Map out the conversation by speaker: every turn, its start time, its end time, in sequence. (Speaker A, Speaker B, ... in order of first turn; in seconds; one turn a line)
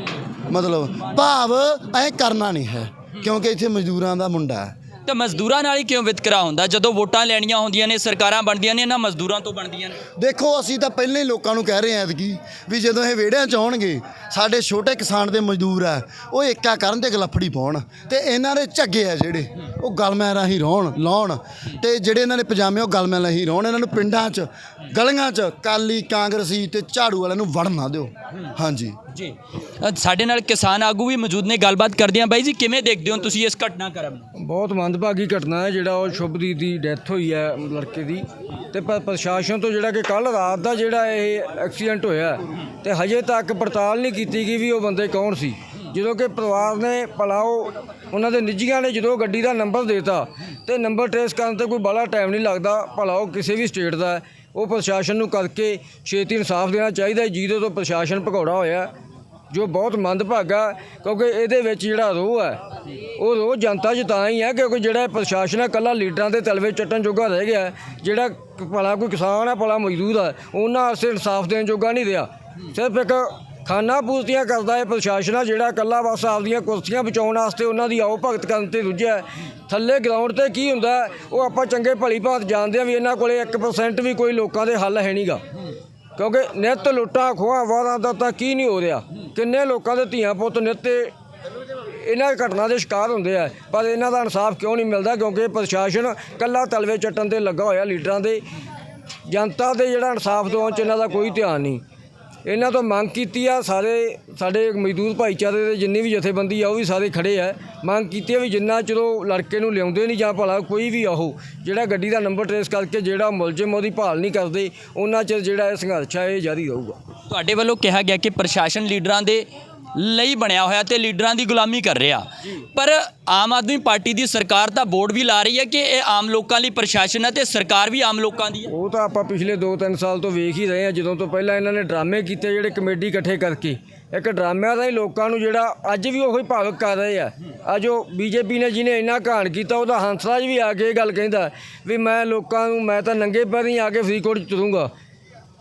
Speaker A: 0.5-4.7
Speaker B: 5.1-10.0
Speaker A: 10.2-29.0
Speaker B: 29.1-34.3
Speaker C: 34.4-58.9
Speaker C: 59.5-62.6
Speaker C: 63.2-85.4
Speaker C: 86.2-91.1
Speaker C: 91.9-98.5
Speaker C: 99.3-101.8
Speaker C: 102.5-117.0
Speaker B: 117.3-128.7
Speaker C: 128.7-144.9